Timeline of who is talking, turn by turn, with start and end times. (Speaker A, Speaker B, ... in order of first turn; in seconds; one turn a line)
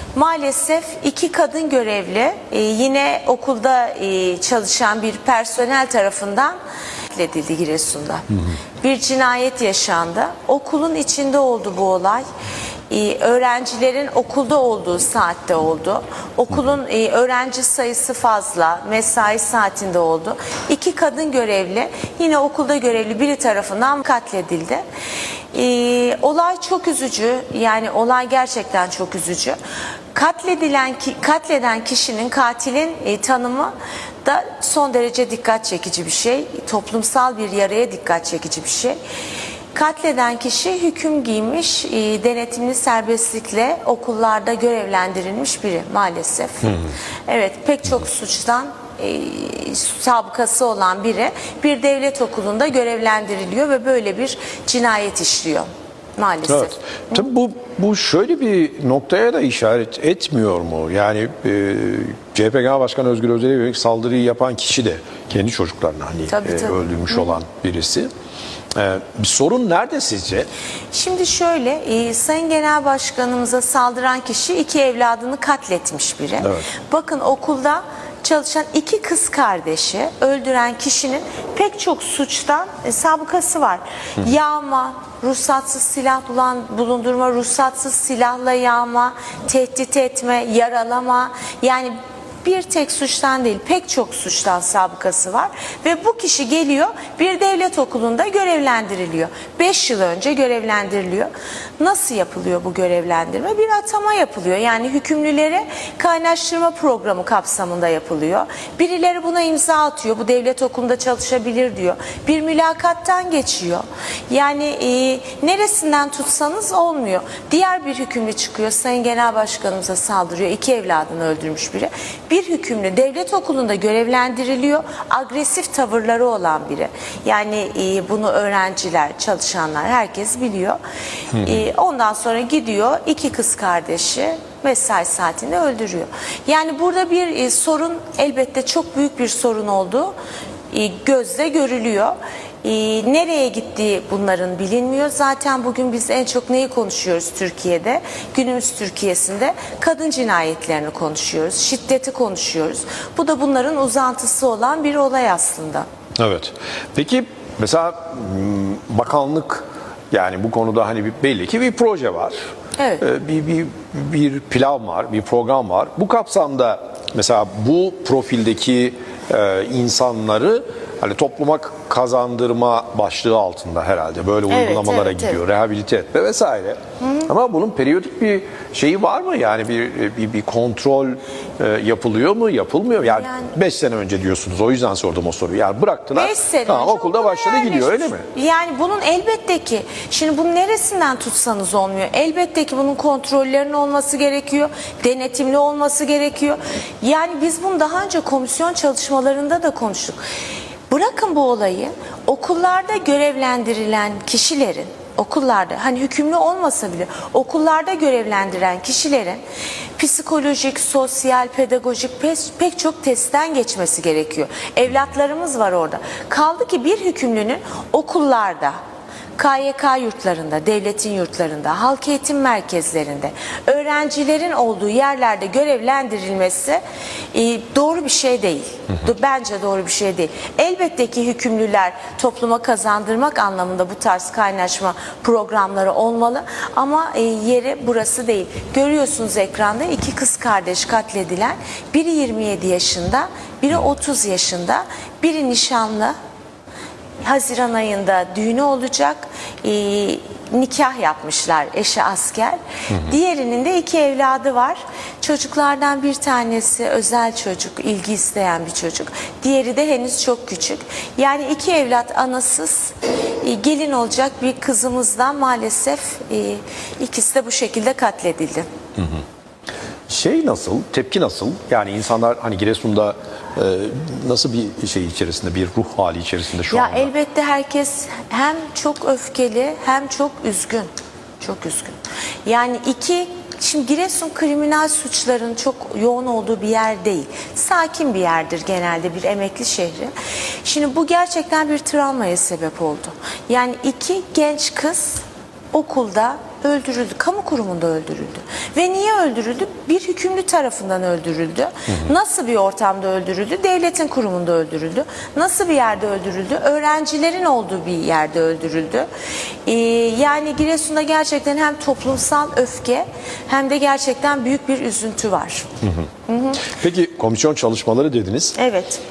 Speaker A: 0.1-6.6
Speaker A: 7.1-8.3
Speaker A: 8.8-12.2
Speaker A: 12.9-24.8
Speaker A: 25.5-29.6
Speaker A: 30.1-39.0
Speaker A: 39.7-56.8
Speaker B: 56.5-68.1
Speaker A: 66.3-67.4
Speaker B: 68.8-70.5
Speaker A: 70.9-130.8
Speaker B: 76.4-76.7
Speaker A: 131.4-140.2
Speaker A: 140.7-155.9
Speaker B: 156.2-162.4
Speaker A: 162.8-163.1
Speaker B: 163.0-188.3
Speaker A: 174.5-175.4
Speaker A: 177.0-177.3
Speaker A: 183.1-183.5
Speaker A: 186.1-200.2
Speaker A: 200.9-209.4
Speaker A: 210.0-218.8
Speaker A: 219.4-226.8
Speaker A: 227.3-246.2
Speaker A: 247.2-268.7
Speaker B: 270.1-277.1
Speaker A: 276.7-290.1
Speaker A: 290.6-309.1
Speaker A: 309.7-315.7
Speaker A: 316.3-316.7
Speaker B: 316.6-318.6
Speaker A: 318.6-319.0